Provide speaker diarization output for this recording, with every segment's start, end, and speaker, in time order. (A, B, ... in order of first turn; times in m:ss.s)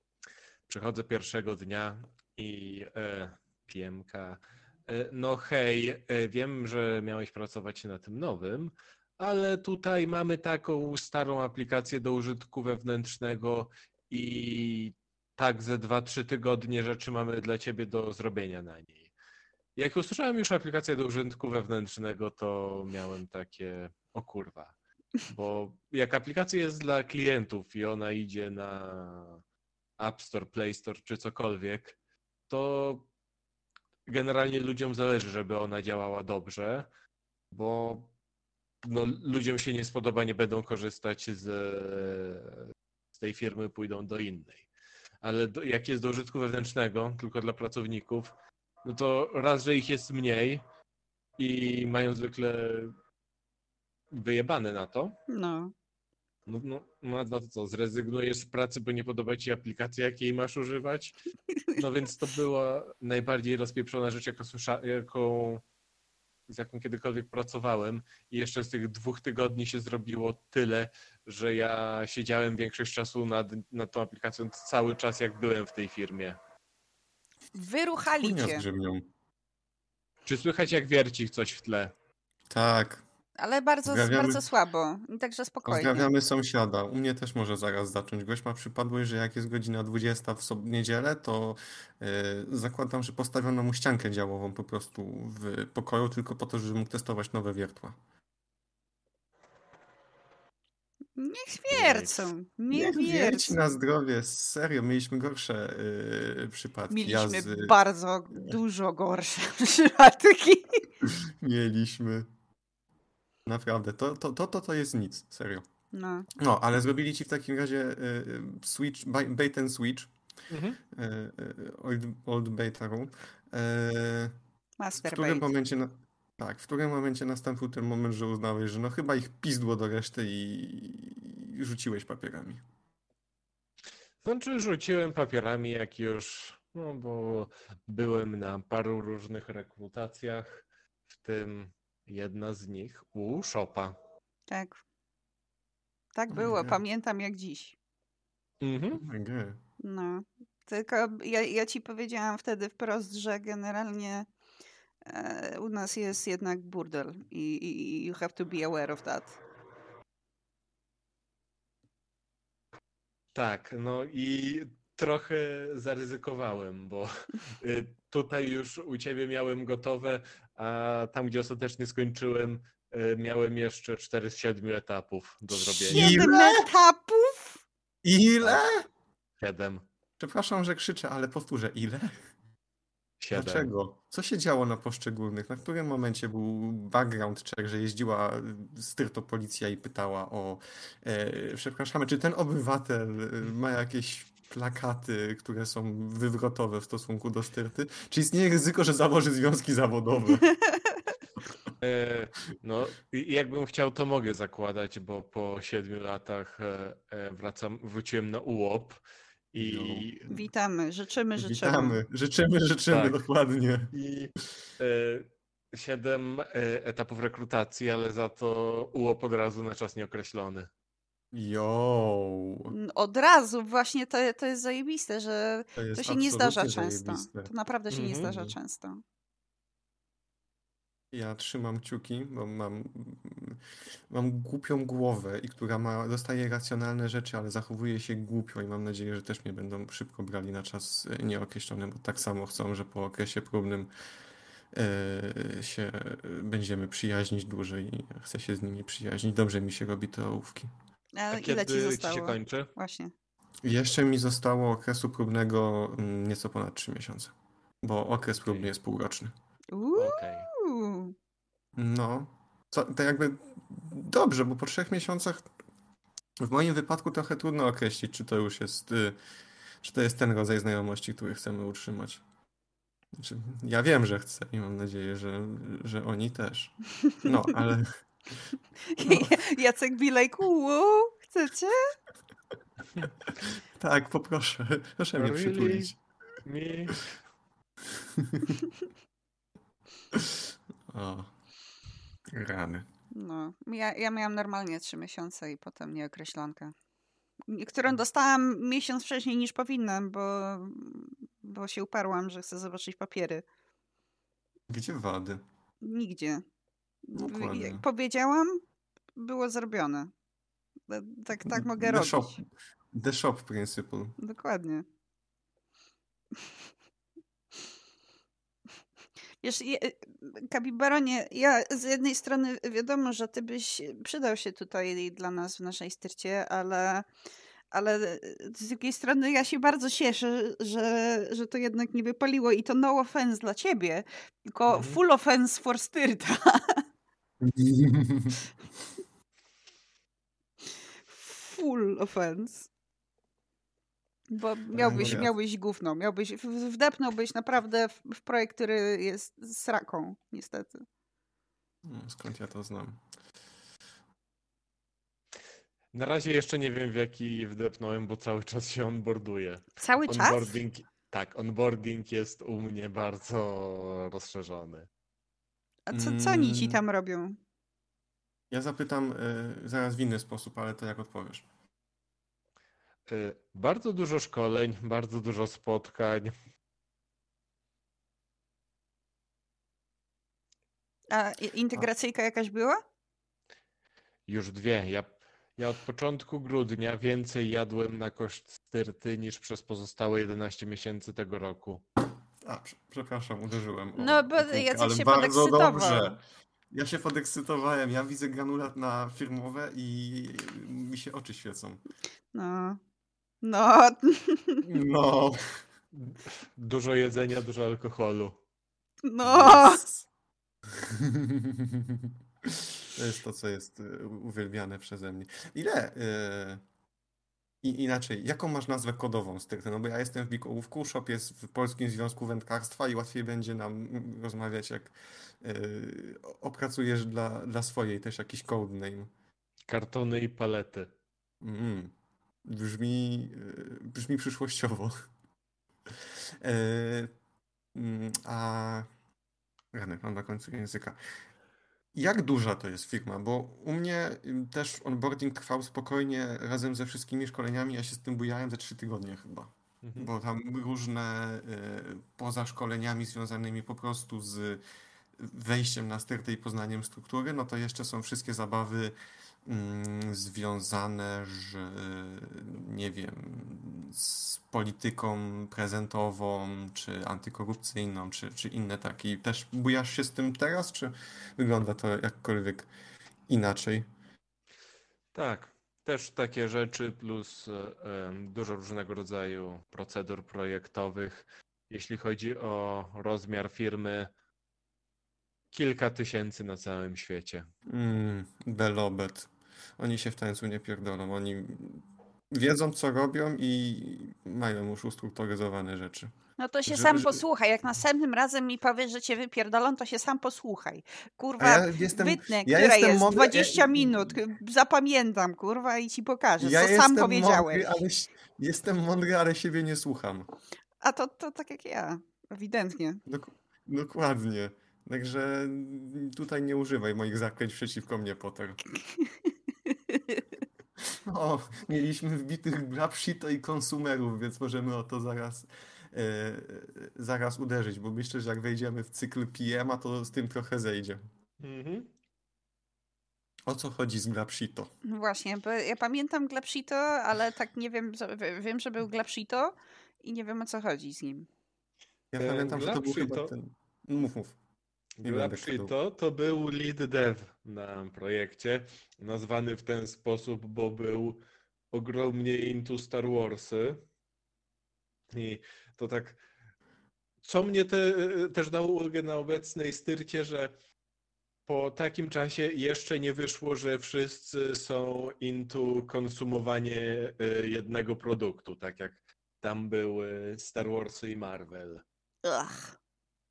0:00.7-0:19.1 A
0:19.8-0:24.7 A
0:25.3-0:29.4 A
0:30.0-0:32.0 A
0:32.5-0:33.1 A
0:34.1-0:36.9 A
0:37.5-0:38.1 A
0:38.8-0:44.7 A
0:45.2-0:48.3 A
0:48.8-0:50.6 A
0:51.4-0:53.0 A
0:54.1-0:55.2 A
0:55.3-0:55.7 B
0:56.5-1:01.2 A
1:01.8-1:05.6 A
1:06.5-1:16.4 A
1:17.6-1:18.6 B
1:18.2-1:19.1 C
1:20.3-1:21.9 A
1:22.5-1:23.0 C
1:23.4-1:26.1 B
1:23.9-1:24.4 C
1:25.6-1:38.0 C
1:41.2-1:43.6 B
1:41.7-1:42.3 A
1:42.7-1:47.8 C
1:46.9-1:50.9 B
1:48.3-1:48.6 C
1:51.0-1:52.3 C
1:53.5-1:55.7 C
1:55.9-1:56.3 B
1:56.4-2:00.1 C
2:00.5-2:00.8 A
2:00.9-2:04.4 C
2:04.8-2:05.5 B
2:05.0-2:12.6 C
2:14.2-2:24.0 A
2:24.5-2:24.8 B
2:26.2-2:27.8 B
2:26.3-2:26.8 C
2:28.6-2:29.0 A
2:29.0-2:29.6 C
2:29.8-2:34.3 B
2:35.0-2:39.4 B
2:43.3-2:47.1 A
2:47.6-2:56.3 A
2:55.5-2:56.7 C
2:55.9-2:57.6 B
2:58.0-2:58.9 C
2:58.4-2:58.7 A
2:59.4-2:59.9 A
3:00.2-3:02.2 C
3:03.2-3:03.7 A
3:03.3-3:20.5 C
3:21.8-3:29.0 A
3:29.5-3:30.3 A
3:29.6-3:30.1 C
3:30.3-3:32.0 B
3:31.4-3:33.9 C
3:32.9-3:33.2 A
3:33.9-3:40.7 A
3:41.3-3:42.7 C
3:42.7-3:49.0 B
3:45.8-3:47.5 C
3:47.9-3:48.3 A
3:48.2-3:48.6 C
3:51.1-4:03.9 C
4:04.7-4:10.7 C
4:11.2-4:13.1 B
4:11.3-4:12.7 A
4:13.6-4:19.3 C
4:18.4-4:18.7 A
4:19.7-4:21.1 B
4:20.0-4:20.5 A
4:21.8-4:25.5 C
4:26.4-4:29.2 C
4:29.8-4:32.2 C
4:33.1-4:37.9 C
4:38.9-4:41.9 B
4:39.1-4:39.4 C
4:43.8-4:46.0 C
4:45.2-4:45.9 A
4:46.4-4:47.0 A
4:47.9-4:48.6 C
4:50.1-4:51.3 C
4:52.3-4:52.9 C
4:53.1-4:56.8 B
4:57.5-5:03.4 B
5:04.7-5:05.4 C
5:05.8-5:06.4 B
5:07.1-5:08.6 B
5:07.2-5:07.8 C
5:09.2-5:10.1 B
5:10.9-5:12.4 B
5:11.4-5:14.2 C
5:14.2-5:14.8 B
5:19.4-5:27.1 B
5:27.7-5:36.8 B
5:34.7-5:35.0 A
5:37.4-5:38.4 C
5:41.1-5:42.7 B
5:44.3-5:50.8 B
5:44.7-5:45.3 C
5:45.0-5:45.2 A
5:51.8-5:53.0 C
5:55.9-6:04.9 A
5:59.8-6:00.6 B
6:05.9-6:07.4 B
6:05.9-6:06.8 C
6:08.5-6:11.5 C
6:13.1-6:16.3 A
6:21.1-6:22.8 B
6:24.3-6:31.8 A
6:32.4-6:41.8 C
6:34.0-6:36.2 B
6:42.3-6:42.8 B
6:43.4-6:44.7 B
6:44.6-6:45.6 C
6:45.9-6:48.4 A
6:49.0-6:49.8 B
6:49.2-6:50.1 C
6:50.7-6:56.6 C
6:57.6-7:09.1 C
7:09.7-7:10.9 A
7:11.4-7:11.9 C
7:12.5-7:15.1 C
7:16.4-7:17.1 C
7:17.8-7:18.9 C
7:19.7-7:21.0 C
7:21.9-7:34.6 C
7:29.8-7:30.1 A
7:35.2-7:52.7 C
7:53.3-7:53.9 C
7:55.1-8:04.1 A
8:05.5-8:07.5 A
8:07.7-8:16.1 C
8:16.4-8:27.8 B
8:16.7-8:17.2 C
8:21.4-8:24.2 C
8:26.4-8:30.3 C
8:30.8-8:33.0 B
8:33.1-8:38.6 C
8:38.7-8:40.2 B
8:40.9-8:51.0 C
8:51.4-8:51.9 A
8:53.5-8:54.7 C
8:54.8-9:01.3 B
9:02.1-9:04.4 C
9:02.2-9:03.3 A
9:05.0-9:11.2 A
9:05.0-9:05.7 C
9:11.7-9:13.8 A
9:15.1-9:16.2 A
9:17.2-9:20.5 A
9:21.5-9:31.8 A
9:32.2-9:32.8 B